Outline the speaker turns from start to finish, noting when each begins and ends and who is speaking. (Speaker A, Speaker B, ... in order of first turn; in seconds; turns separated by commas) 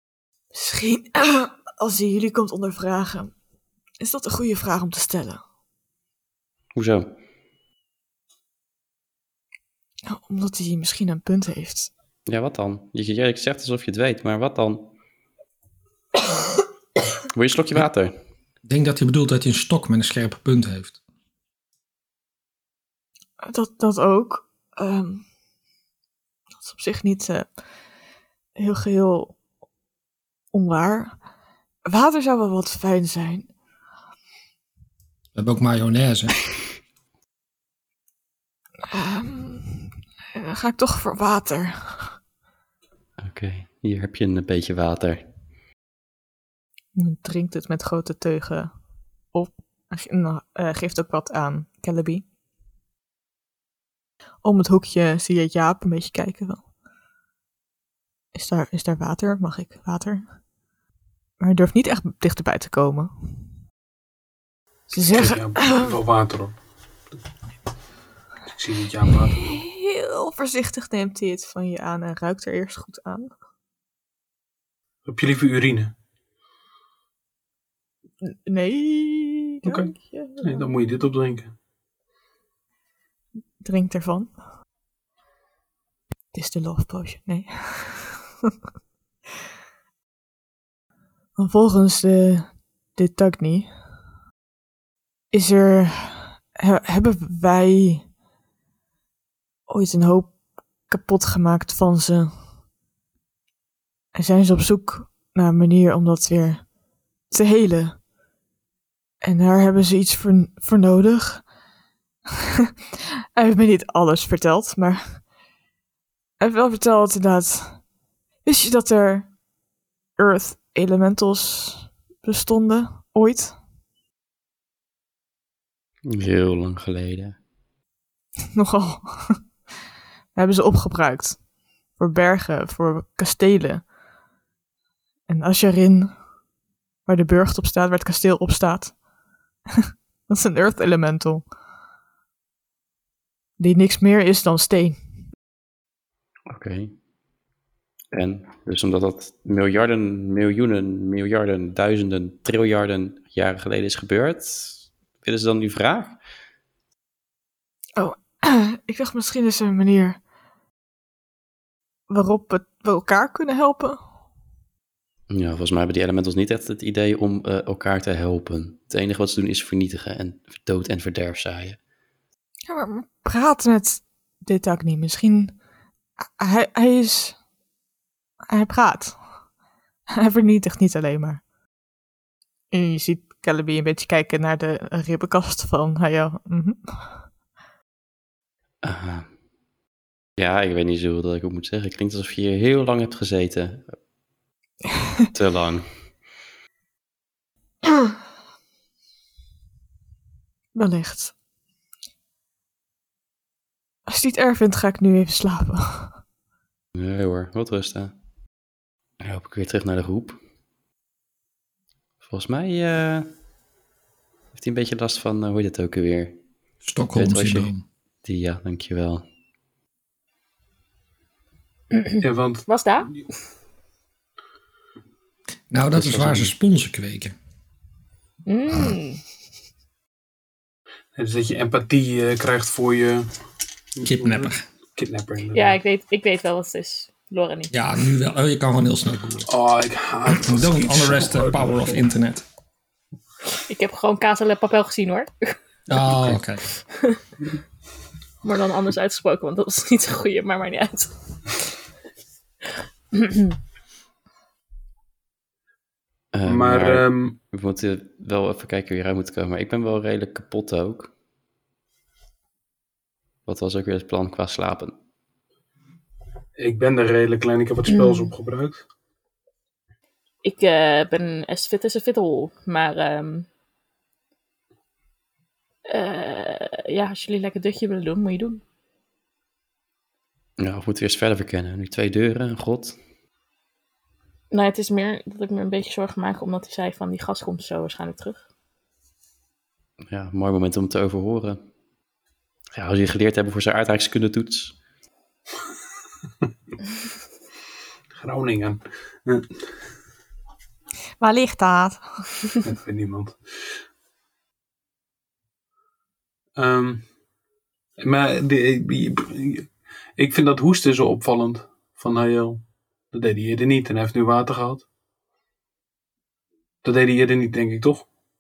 Speaker A: 0.5-3.3, Speaker A: 4.0-5.4, Speaker B: 6.7-7.1, Speaker A: 10.1-11.9, Speaker B: 12.3-14.9, Speaker B: 17.3-18.1, Speaker C: 18.6-20.9, Speaker A: 23.4-25.2, Speaker A: 26.6-27.5, Speaker A: 28.6-29.4, Speaker A: 30.5-31.1, Speaker A: 31.9-33.5, Speaker C: 35.3-36.3, Speaker A: 38.9-42.2, Speaker B: 43.2-45.2, Speaker A: 46.9-48.7, Speaker A: 49.3-52.2, Speaker A: 54.4-56.6, Speaker A: 58.3-60.2, Speaker A: 61.4-63.1, Speaker A: 64.9-65.9, Speaker D: 65.0-66.5, Speaker D: 68.5-69.6, Speaker A: 69.4-73.3, Speaker D: 75.0-75.9, Speaker A: 78.2-80.7, Speaker D: 79.6-81.5, Speaker A: 83.6-84.3, Speaker A: 86.3-88.2, Speaker A: 91.4-93.7, Speaker A: 95.3-98.1, Speaker A: 99.7-100.4, Speaker A: 100.9-102.3, Speaker A: 104.1-106.7, Speaker A: 107.3-108.0, Speaker A: 109.2-111.5, Speaker A: 113.3-115.2, Speaker A: 116.4-117.8, Speaker A: 118.4-119.3, Speaker A: 120.2-123.6, Speaker B: 126.0-127.4, Speaker A: 128.5-129.4, Speaker A: 130.3-131.4, Speaker A: 131.9-133.9, Speaker A: 135.3-136.1, Speaker A: 137.1-139.0, Speaker A: 140.3-141.5, Speaker A: 143.6-145.0, Speaker B: 146.5-146.9, Speaker B: 148.1-156.2, Speaker A: 157.9-160.2, Speaker A: 162.1-164.0, Speaker B: 165.3-171.8, Speaker A: 172.7-175.6, Speaker A: 176.4-177.4, Speaker A: 178.5-179.2, Speaker A: 180.1-181.4, Speaker A: 182.7-187.2, Speaker B: 188.8-189.3, Speaker B: 190.4-193.9, Speaker B: 195.3-195.9, Speaker A: 200.7-201.3, Speaker A: 204.1-206.2, Speaker B: 206.9-208.1, Speaker B: 209.2-210.4, Speaker B: 212.2-213.3, Speaker B: 214.5-216.4, Speaker C: 216.8-217.8, Speaker B: 217.1-217.7, Speaker B: 218.2-219.2, Speaker E: 221.9-223.2, Speaker D: 222.2-222.7, Speaker C: 225.7-227.3, Speaker B: 225.9-226.5, Speaker E: 228.4-229.2, Speaker D: 231.1-233.3, Speaker D: 233.9-235.8, Speaker C: 234.0-234.6, Speaker E: 235.5-237.7, Speaker C: 237.7-239.5, Speaker D: 239.5-242.0, Speaker C: 240.2-242.4, Speaker E: 243.7-245.5, Speaker C: 245.9-246.6, Speaker E: 246.9-247.2, Speaker E: 248.4-251.1, Speaker E: 253.1-253.6, Speaker B: 256.3-261.1, Speaker D: 256.4-257.4, Speaker B: 263.4-264.9, Speaker D: 266.6-268.8, Speaker E: 270.4-273.5, Speaker E: 275.9-278.6, Speaker B: 280.6-282.9, Speaker E: 284.5-288.4, Speaker B: 290.1-291.6, Speaker B: 292.7-294.7, Speaker D: 298.1-299.5, Speaker A: 301.2-302.0, Speaker D: 302.6-303.4, Speaker D: 306.6-307.1, Speaker D: 308.0-314.8, Speaker D: 316.8-318.1